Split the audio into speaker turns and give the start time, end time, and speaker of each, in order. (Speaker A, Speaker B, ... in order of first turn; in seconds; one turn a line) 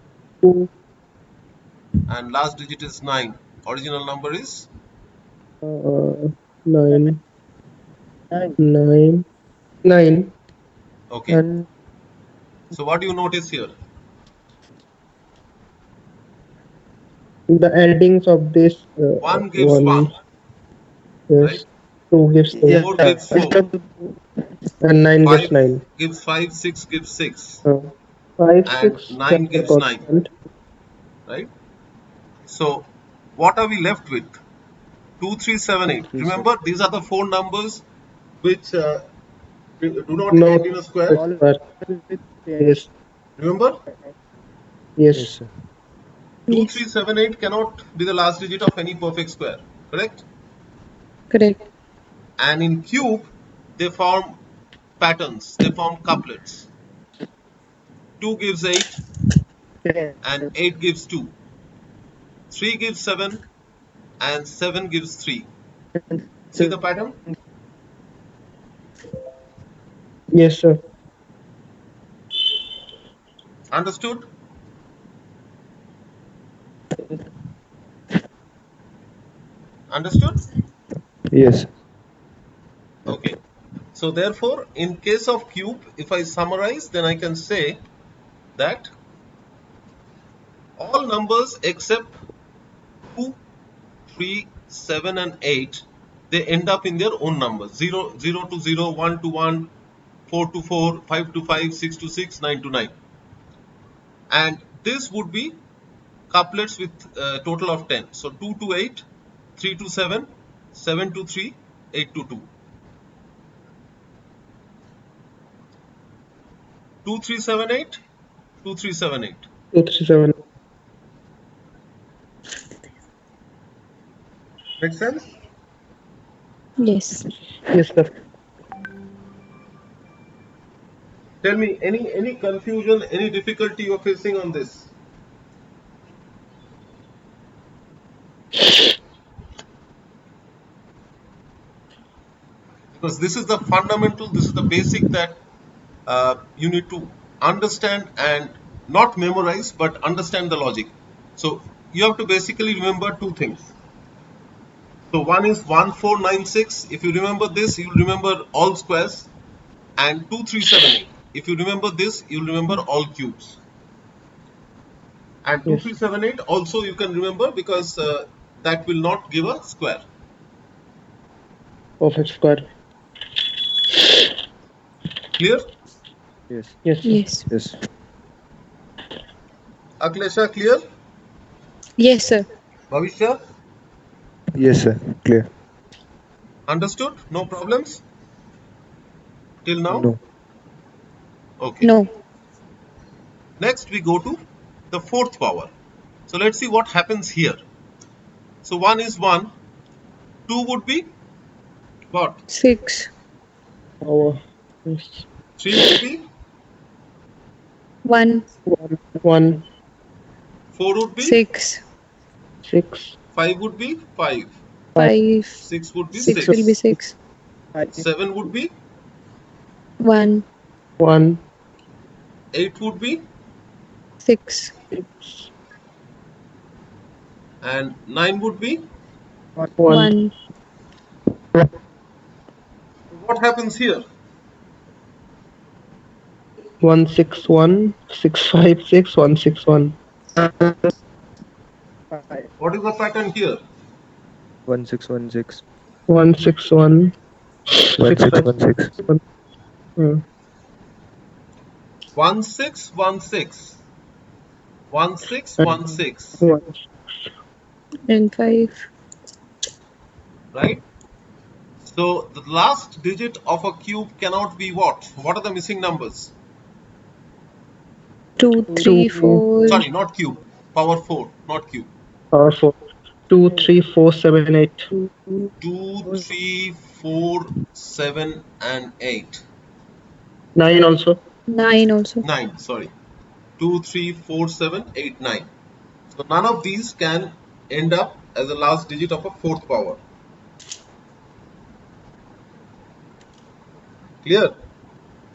Speaker A: 0.4-0.7
Speaker B: 2.1-4.7
Speaker A: 5.6-7.2
Speaker A: 8.6-9.2
Speaker A: 9.8-10.3
Speaker B: 11.1-11.4
Speaker A: 11.3-11.6
Speaker B: 12.7-13.7
Speaker A: 17.5-20.1
Speaker B: 19.2-20.1
Speaker A: 21.3-23.0
Speaker B: 22.6-23.6
Speaker A: 24.8-25.8
Speaker B: 25.2-27.6
Speaker A: 27.6-30.3
Speaker B: 28.6-30.1
Speaker B: 32.4-34.4
Speaker B: 35.2-37.8
Speaker C: 35.9-36.5
Speaker B: 38.4-39.0
Speaker B: 39.8-41.2
Speaker A: 40.3-41.6
Speaker A: 42.6-42.9
Speaker B: 43.4-43.7
Speaker A: 45.0-45.3
Speaker C: 45.1-45.5
Speaker D: 46.5-46.8
Speaker B: 46.5-50.2
Speaker D: 51.3-51.6
Speaker B: 52.4-54.4
Speaker B: 55.0-56.7
Speaker B: 58.2-59.0
Speaker B: 60.2-61.3
Speaker B: 62.5-63.4
Speaker B: 64.2-65.5
Speaker B: 66.5-67.2
Speaker A: 70.3-70.8
Speaker B: 73.7-74.2
Speaker B: 79.9-80.4
Speaker C: 81.3-81.6
Speaker B: 83.0-83.4
Speaker B: 83.9-87.8
Speaker B: 88.5-88.9
Speaker B: 90.8-92.1
Speaker B: 93.1-93.4
Speaker B: 94.1-99.7
Speaker B: 100.3-102.9
Speaker B: 104.3-105.6
Speaker B: 106.3-109.0
Speaker B: 109.6-112.5
Speaker B: 117.0-118.0
Speaker B: 118.6-119.5
Speaker A: 119.7-120.3
Speaker B: 124.8-125.3
Speaker D: 126.8-127.3
Speaker A: 127.7-128.1
Speaker B: 131.4-134.9
Speaker B: 142.9-145.4
Speaker B: 146.1-153.7
Speaker B: 155.1-159.3
Speaker B: 160.0-163.6
Speaker B: 165.4-170.0
Speaker A: 172.0-172.6
Speaker B: 175.4-175.6
Speaker C: 176.5-176.8
Speaker A: 176.8-177.2
Speaker D: 177.0-177.5
Speaker C: 177.5-177.8
Speaker B: 180.0-180.8
Speaker D: 182.0-182.4
Speaker B: 182.9-183.4
Speaker C: 184.6-185.5
Speaker B: 186.7-188.0
Speaker B: 189.6-190.1
Speaker B: 191.6-191.9
Speaker D: 191.8-192.1
Speaker B: 193.6-195.7
Speaker B: 196.3-197.6
Speaker B: 198.6-199.5
Speaker B: 200.5-201.1
Speaker B: 202.1-202.4
Speaker D: 202.5-203.1
Speaker A: 204.0-205.2
Speaker B: 205.6-206.2
Speaker D: 208.0-208.4
Speaker A: 208.7-209.6
Speaker B: 210.7-211.4
Speaker D: 211.2-211.8
Speaker A: 212.7-213.1
Speaker B: 213.3-214.5
Speaker D: 214.9-217.1
Speaker B: 215.6-216.7
Speaker B: 217.9-218.7
Speaker D: 220.0-220.4
Speaker A: 221.0-221.4
Speaker B: 222.5-223.2
Speaker D: 224.2-224.7
Speaker A: 225.0-225.5
Speaker B: 227.6-228.8
Speaker A: 229.7-230.1
Speaker D: 229.9-230.3
Speaker B: 233.1-234.0
Speaker A: 236.8-239.9
Speaker B: 242.6-243.6
Speaker C: 244.7-245.6
Speaker A: 246.1-247.1
Speaker C: 248.0-248.9
Speaker A: 250.0-250.2
Speaker B: 252.1-253.8
Speaker B: 254.9-256.4
Speaker A: 256.4-256.7
Speaker D: 258.1-258.8
Speaker B: 260.5-260.8
Speaker B: 261.8-266.3
Speaker D: 268.4-269.9
Speaker A: 268.8-269.4
Speaker B: 269.6-271.9
Speaker A: 272.3-272.8
Speaker A: 273.3-274.9
Speaker B: 275.6-279.4
Speaker A: 280.6-281.2
Speaker D: 281.5-282.2
Speaker B: 282.2-282.9
Speaker B: 283.6-285.5
Speaker B: 286.1-290.0
Speaker B: 294.2-294.5